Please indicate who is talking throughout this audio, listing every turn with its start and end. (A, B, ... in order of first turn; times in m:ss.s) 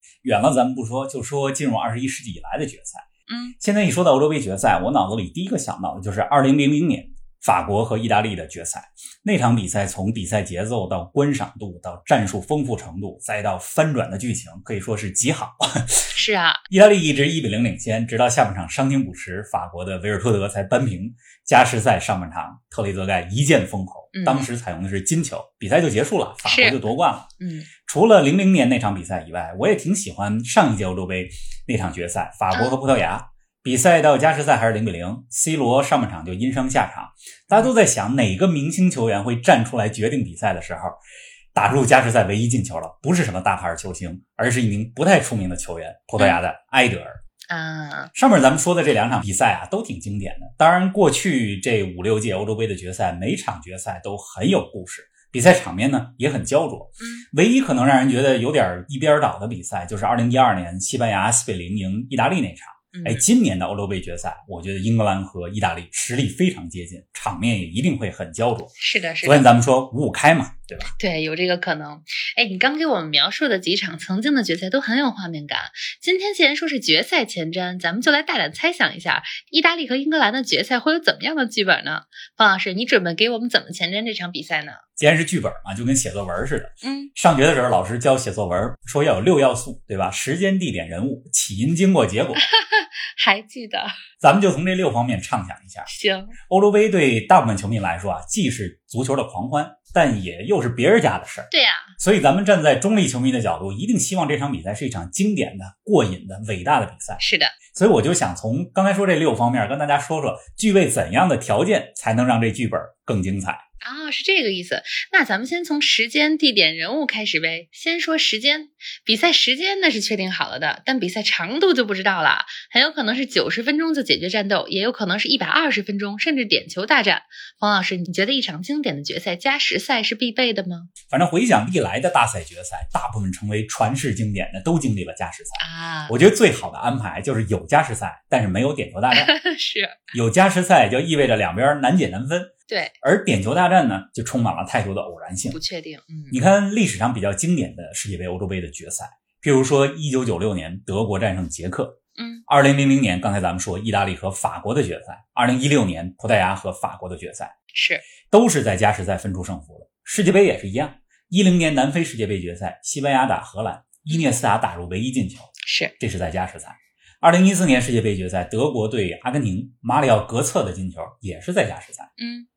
0:00.2-0:03.0 A
0:03.3-0:03.6 B
0:03.6-0:16.1 A
0:16.1-0:16.6 B
0:16.7-0:27.3 A
0:24.1-0:24.5 B
0:26.4-0:26.8 B
0:27.4-0:27.7 B
0:27.9-0:41.0 A
0:32.5-0:32.8 B
0:41.5-0:47.2 A
0:47.5-0:48.1 B
0:48.2-1:10.9 A
1:02.9-1:03.2 B
1:08.8-1:09.5 B
1:10.8-1:24.8 B
1:25.0-1:32.4 A
1:26.8-1:27.1 B
1:32.4-1:33.9 B
1:34.2-1:35.9 A
1:35.9-1:36.4 B
1:36.5-1:47.2 A
1:41.5-1:41.9 B
1:47.2-1:47.6 B
1:47.7-1:53.6 A
1:53.8-2:10.9 B
2:11.1-2:19.3 A
2:15.6-2:16.2 B
2:19.1-2:20.1 B
2:20.1-2:22.5 A
2:22.7-2:23.0 B
2:23.0-2:25.6 A
2:25.5-2:26.4 B
2:26.3-2:37.5 A
2:32.2-2:32.4 B
2:37.7-2:38.1 B
2:38.3-2:52.1 A
2:44.1-2:44.3 B
2:45.6-2:45.9 B
2:52.2-2:52.5 B